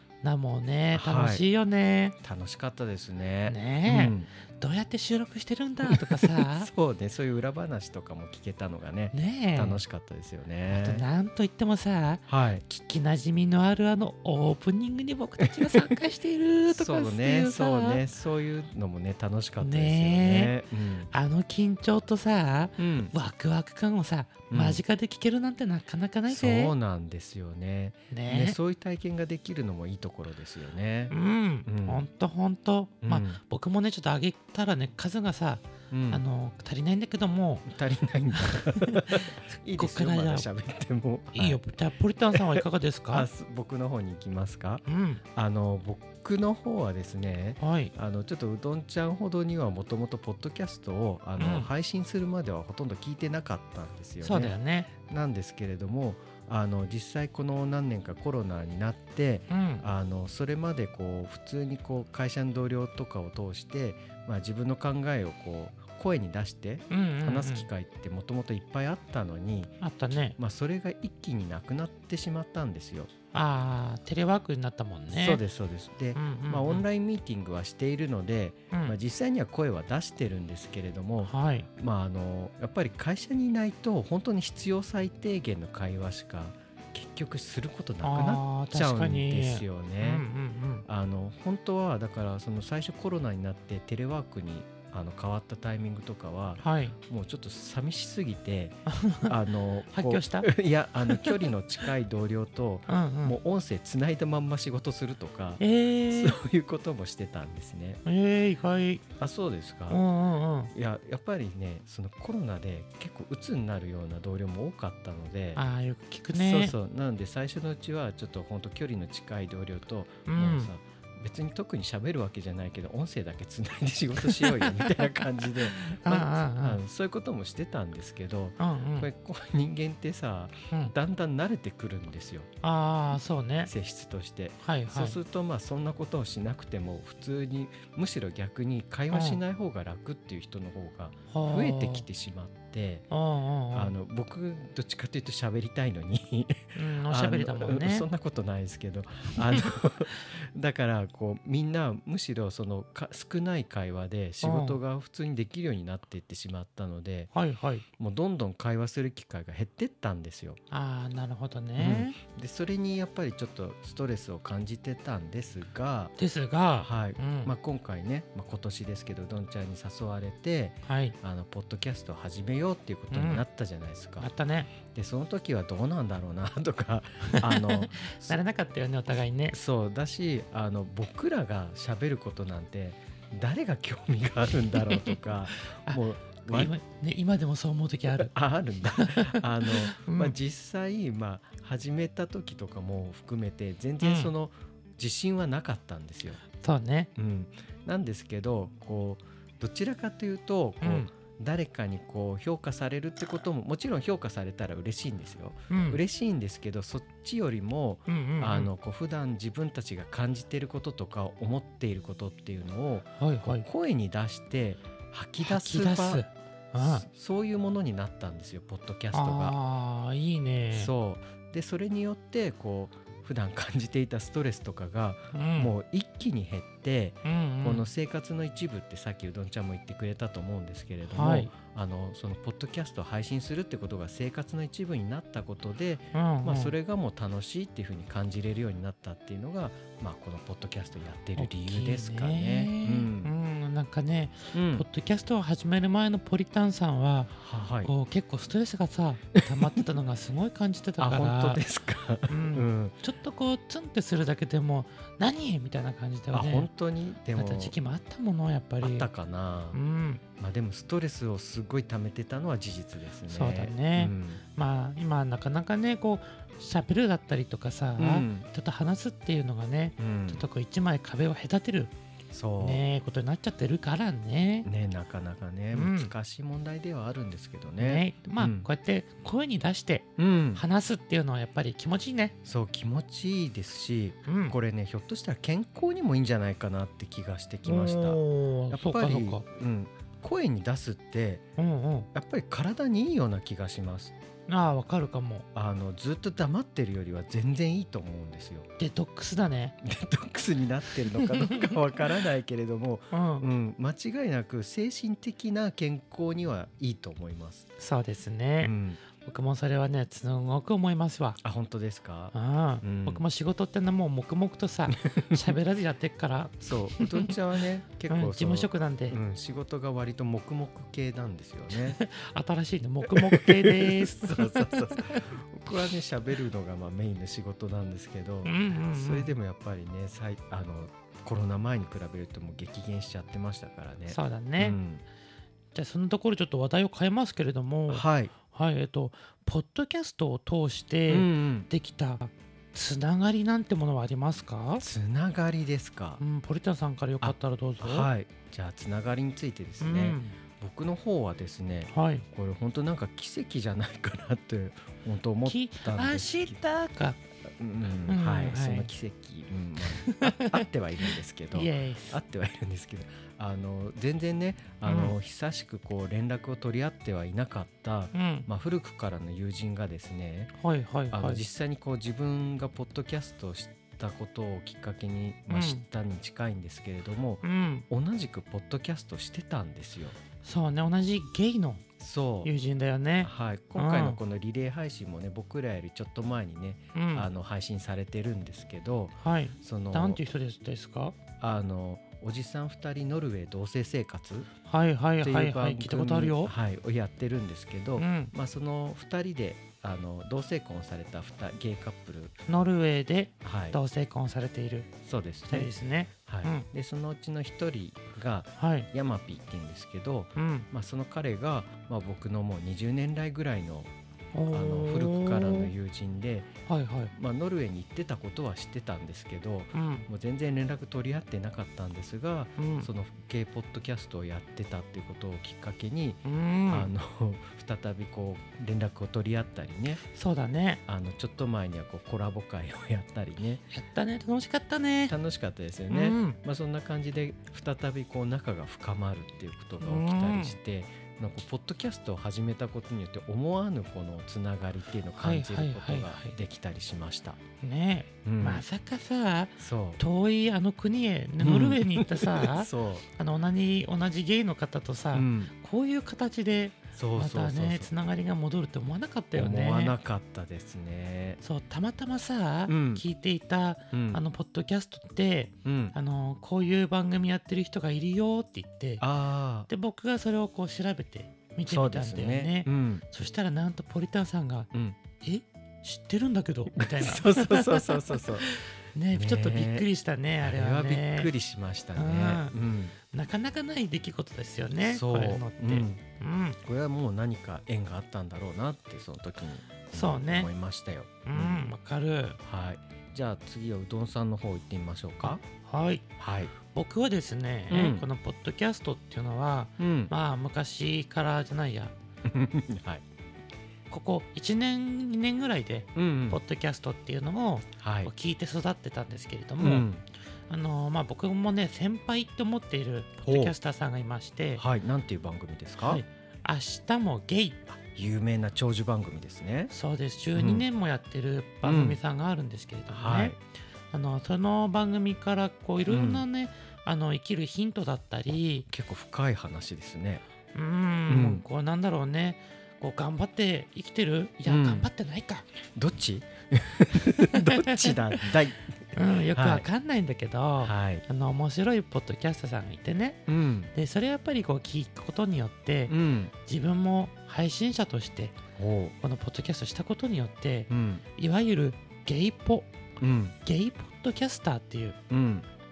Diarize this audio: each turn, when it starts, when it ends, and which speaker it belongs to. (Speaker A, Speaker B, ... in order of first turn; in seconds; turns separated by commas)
Speaker A: 0.2-2.2, Speaker B: 0.9-1.4, Speaker B: 2.2-4.3, Speaker A: 3.5-6.7, Speaker B: 5.9-11.1, Speaker A: 9.1-9.8, Speaker A: 10.7-18.0, Speaker B: 12.3-12.6, Speaker B: 15.5-15.9, Speaker B: 16.7-21.1, Speaker A: 19.6-20.5, Speaker A: 21.1-26.7, Speaker B: 22.8-23.1, Speaker B: 24.5-24.8, Speaker B: 26.3-31.1, Speaker A: 28.1-28.6, Speaker A: 31.1-37.7, Speaker B: 31.7-32.0, Speaker B: 33.0-33.4, Speaker B: 35.9-36.2, Speaker B: 37.7-41.6, Speaker A: 38.4-40.5, Speaker A: 41.3-43.3, Speaker B: 42.3-69.8, Speaker A: 44.9-45.2, Speaker A: 47.6-47.9, Speaker A: 51.4-51.7, Speaker A: 54.2-54.9, Speaker A: 59.5-59.9, Speaker A: 66.9-67.7, Speaker A: 69.8-70.4, Speaker B: 70.4-73.1, Speaker A: 73.3-75.4, Speaker B: 75.1-90.3, Speaker A: 76.2-76.8, Speaker A: 78.7-79.0, Speaker A: 81.2-81.7, Speaker A: 88.0-90.9, Speaker B: 90.8-108.0, Speaker A: 96.6-97.0, Speaker A: 98.9-99.3, Speaker A: 99.9-100.5, Speaker A: 101.1-101.4, Speaker A: 102.9-103.4, Speaker A: 105.6-106.4, Speaker A: 108.0-109.0, Speaker B: 109.2-110.0, Speaker A: 109.9-110.7, Speaker B: 110.7-115.6, Speaker A: 115.6-116.8, Speaker B: 116.3-132.5, Speaker A: 120.3-120.7, Speaker A: 124.3-124.7, Speaker A: 125.8-126.8, Speaker A: 128.6-129.1, Speaker A: 132.6-133.7, Speaker B: 133.7-143.1, Speaker A: 134.6-135.2, Speaker A: 139.1-139.4, Speaker A: 141.3-142.1, Speaker A: 143.1-143.9, Speaker B: 143.7-157.3, Speaker A: 146.8-148.1, Speaker A: 154.4-154.8, Speaker A: 157.3-157.8, Speaker B: 158.0-160.6, Speaker A: 160.7-162.2, Speaker B: 161.8-166.1, Speaker A: 166.2-167.5, Speaker B: 166.8-174.3, Speaker A: 170.9-171.2, Speaker A: 173.1-173.4, Speaker A: 174.2-174.7, Speaker B: 174.8-178.4, Speaker A: 177.3-179.6, Speaker B: 179.5-186.7, Speaker A: 185.7-190.4, Speaker B: 188.2-196.4, Speaker A: 194.0-194.3, Speaker A: 196.6-197.1, Speaker B: 197.2-216.2, Speaker A: 200.8-201.1, Speaker A: 205.7-206.0, Speaker A: 208.1-208.7, Speaker A: 213.2-213.7, Speaker A: 215.4-217.1, Speaker B: 216.8-219.6, Speaker A: 219.1-220.9, Speaker B: 220.7-243.3, Speaker A: 225.3-225.7, Speaker A: 227.2-227.9, Speaker A: 231.1-231.5, Speaker A: 236.1-236.8, Speaker A: 241.4-251.6, Speaker B: 244.5-244.8, Speaker B: 247.3-247.9, Speaker B: 249.4-249.8, Speaker B: 251.0-252.9, Speaker A: 252.3-256.7, Speaker B: 256.3-257.8, Speaker A: 257.4-259.1, Speaker B: 258.8-259.8, Speaker A: 259.7-260.2, Speaker B: 260.4-264.4, Speaker A: 263.3-271.9, Speaker B: 268.0-268.5, Speaker B: 270.0-270.4, Speaker B: 272.3-272.8, Speaker A: 272.6-274.7, Speaker B: 274.6-278.7, Speaker A: 275.7-276.1, Speaker A: 277.8-282.4, Speaker B: 280.2-280.6, Speaker B: 282.4-291.5, Speaker A: 284.3-284.6, Speaker A: 287.6-289.4, Speaker A: 291.6-292.1, Speaker B: 292.1-294.1, Speaker A: 294.5-295.4, Speaker B: 295.6-298.7, Speaker A: 298.8-299.8, Speaker B: 299.8-307.7, Speaker A: 301.2-301.7, Speaker A: 303.1-303.5, Speaker A: 307.8-311.4, Speaker B: 308.6-309.0, Speaker B: 311.4-313.2, Speaker A: 312.3-317.3, Speaker B: 314.9-315.6, Speaker B: 316.6-322.0, Speaker A: 318.1-319.2, Speaker A: 321.9-325.3, Speaker B: 323.0-335.0, Speaker A: 328.4-329.3, Speaker A: 334.1-334.8, Speaker A: 335.7-344.8, Speaker B: 337.9-338.3, Speaker B: 341.1-341.7, Speaker B: 344.8-346.2, Speaker A: 346.2-348.1, Speaker B: 347.2-356.6, Speaker A: 349.8-350.4, Speaker A: 351.9-352.2, Speaker A: 355.4-357.2, Speaker B: 357.4-370.5, Speaker A: 358.1-358.9, Speaker A: 359.9-360.6, Speaker A: 361.5-362.2, Speaker A: 364.9-365.2, Speaker A: 368.1-368.5, Speaker A: 370.6-371.4, Speaker B: 371.1-380.2, Speaker A: 375.5-375.8, Speaker A: 377.4-377.9, Speaker A: 380.4-381.9, Speaker B: 382.0-382.5, Speaker A: 382.4-384.2, Speaker B: 383.2-390.2, Speaker A: 386.9-387.3, Speaker A: 389.2-391.2, Speaker B: 391.4-394.5, Speaker A: 394.7-396.5, Speaker B: 395.2-402.4, Speaker A: 398.0-398.3, Speaker A: 402.5-404.9, Speaker B: 403.4-403.8, Speaker B: 405.0-405.7, Speaker A: 405.5-406.7, Speaker B: 406.3-413.9, Speaker A: 408.6-408.9, Speaker A: 410.4-410.7, Speaker A: 414.3-415.7, Speaker B: 414.5-416.5, Speaker A: 416.7-417.1, Speaker B: 417.1-430.0, Speaker A: 419.7-420.1, Speaker A: 422.6-422.9, Speaker A: 426.2-426.9, Speaker A: 430.1-430.8, Speaker B: 430.9-433.6, Speaker A: 433.7-435.2, Speaker B: 435.1-447.4, Speaker A: 435.9-436.4, Speaker A: 439.8-440.6, Speaker A: 445.2-446.4, Speaker A: 447.6-459.9, Speaker B: 448.2-448.6, Speaker B: 449.6-450.0, Speaker B: 451.4-453.1, Speaker B: 455.1-455.5, Speaker B: 456.9-457.9, Speaker B: 459.4-461.4, Speaker A: 461.4-469.1, Speaker B: 462.7-463.0, Speaker B: 463.9-464.2, Speaker B: 465.6-466.0, Speaker B: 469.0-469.7, Speaker A: 469.7-481.3, Speaker B: 471.7-473.0, Speaker B: 474.7-475.0, Speaker B: 476.7-478.5, Speaker B: 479.1-479.9, Speaker B: 480.4-482.9, Speaker A: 482.0-482.5, Speaker A: 483.1-486.6, Speaker B: 484.9-486.0, Speaker B: 486.6-491.7, Speaker A: 489.9-490.5, Speaker A: 491.2-492.4, Speaker B: 492.4-495.4, Speaker A: 495.2-496.1, Speaker B: 496.2-496.5, Speaker A: 496.6-501.9, Speaker B: 497.7-498.1, Speaker B: 499.8-500.1, Speaker B: 502.2-503.0, Speaker A: 503.9-509.9, Speaker B: 506.0-506.4, Speaker B: 507.8-508.1, Speaker B: 509.6-510.1, Speaker A: 510.5-514.6, Speaker B: 513.2-513.5, Speaker B: 514.6-516.0, Speaker A: 515.8-517.8, Speaker B: 517.9-519.7, Speaker A: 519.7-523.4, Speaker B: 520.4-520.6, Speaker B: 521.6-522.0, Speaker B: 522.9-523.4, Speaker A: 523.9-528.7, Speaker B: 525.9-526.2, Speaker B: 528.7-530.2, Speaker A: 530.5-535.5, Speaker B: 531.1-531.4, Speaker B: 534.5-534.9, Speaker B: 535.8-538.7, Speaker A: 537.3-538.2, Speaker A: 538.9-548.4, Speaker B: 539.3-539.6, Speaker B: 540.6-541.0, Speaker B: 543.3-543.7, Speaker B: 545.9-546.3, Speaker B: 548.6-549.0, Speaker A: 549.0-552.7, Speaker B: 550.7-551.0, Speaker B: 553.0-553.4, Speaker A: 553.4-555.0, Speaker B: 555.1-555.5